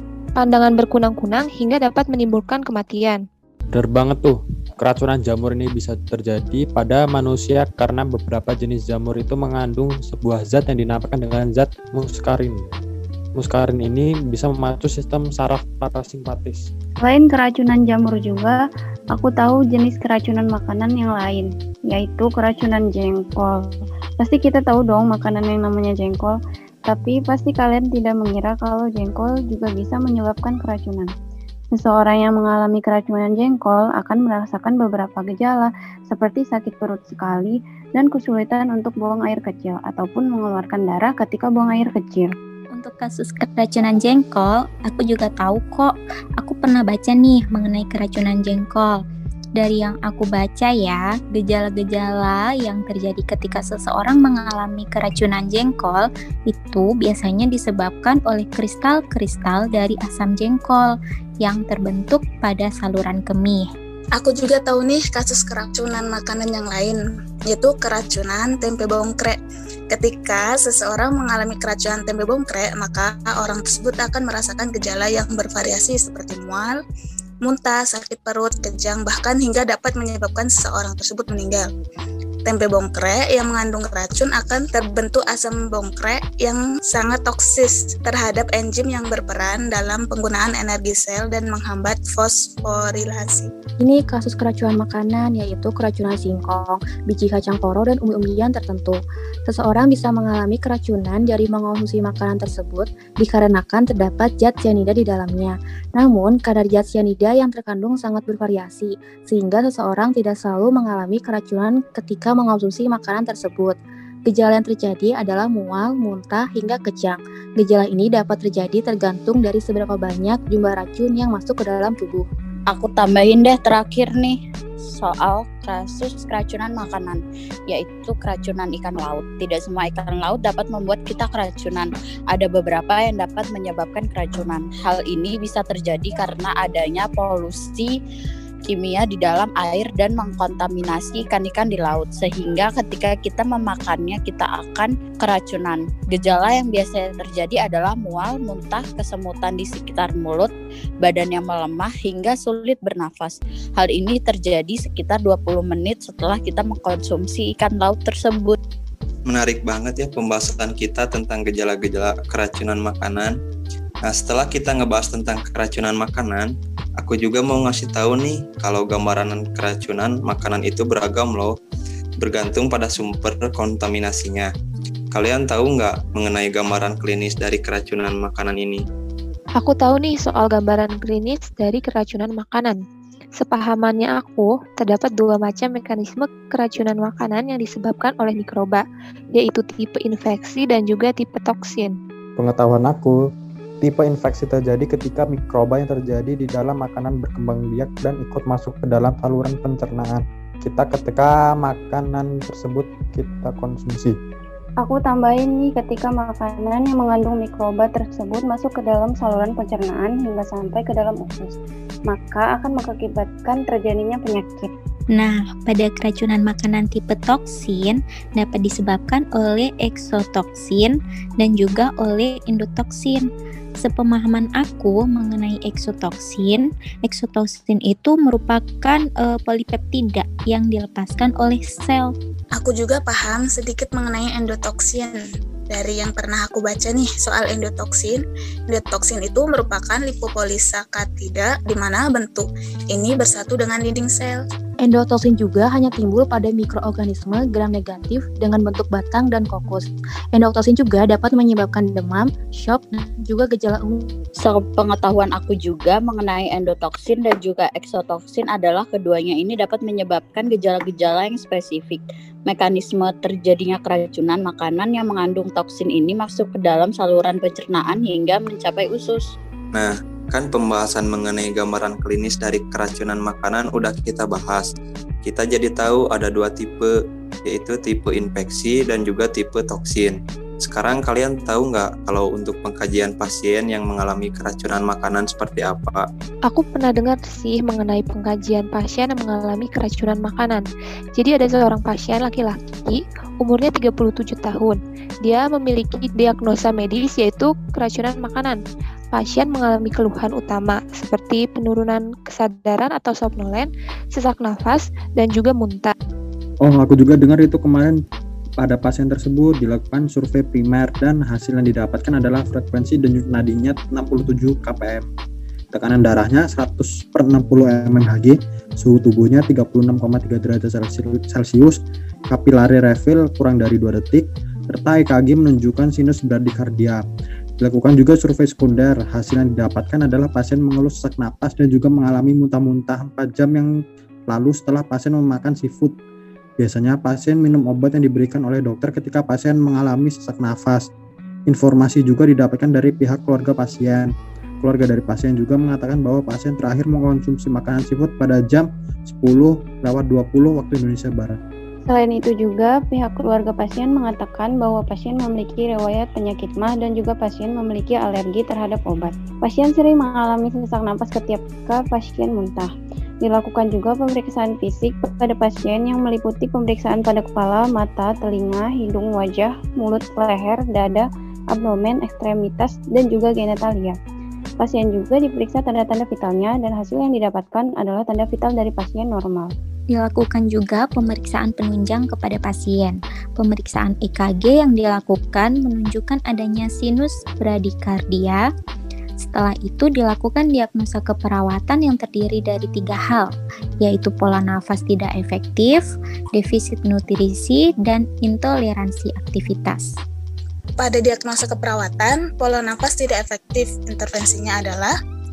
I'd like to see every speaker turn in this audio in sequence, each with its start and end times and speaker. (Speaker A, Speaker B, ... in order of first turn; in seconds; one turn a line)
Speaker A: 0.4-3.2
Speaker B: 3.7-12.7
Speaker B: 13.4-16.7
Speaker C: 17.0-31.1
Speaker C: 31.7-42.3
Speaker D: 42.8-49.0
Speaker D: 49.6-63.6
Speaker E: 64.2-69.4
Speaker E: 69.9-76.8
Speaker E: 77.4-81.7
Speaker E: 82.5-93.5
Speaker F: 93.8-122.2
Speaker G: 122.7-137.9
Speaker G: 138.7-150.5
Speaker G: 151.0-158.6
Speaker H: 159.3-163.3
Speaker H: 164.1-171.6
Speaker H: 172.2-174.5
Speaker H: 175.1-178.8
Speaker A: 179.6-182.8
Speaker A: 183.4-188.8
Speaker A: 189.3-192.0
Speaker B: 192.4-193.2
Speaker B: 193.8-204.2
Speaker C: 204.8-211.6
Speaker C: 212.1-214.7
Speaker D: 215.1-223.2
Speaker D: 223.8-232.1
Speaker E: 232.6-235.2
Speaker E: 235.7-244.4
Speaker F: 244.8-254.1
Speaker G: 254.4-269.2
Speaker H: 269.7-274.7
Speaker H: 275.2-276.9
Speaker H: 277.5-286.1
Speaker A: 286.5-298.6
Speaker A: 299.1-305.9
Speaker B: 306.6-308.0
Speaker B: 308.6-315.1
Speaker B: 315.7-321.8
Speaker B: 322.3-327.0
Speaker B: 327.6-333.7
Speaker B: 334.3-335.9
Speaker B: 336.6-340.9
Speaker B: 341.5-351.4
Speaker C: 351.9-362.7
Speaker C: 363.2-373.9
Speaker C: 374.6-379.5
Speaker D: 379.9-388.4
Speaker D: 389.4-393.3
Speaker D: 393.8-395.8
Speaker D: 396.3-399.9
Speaker E: 400.8-404.9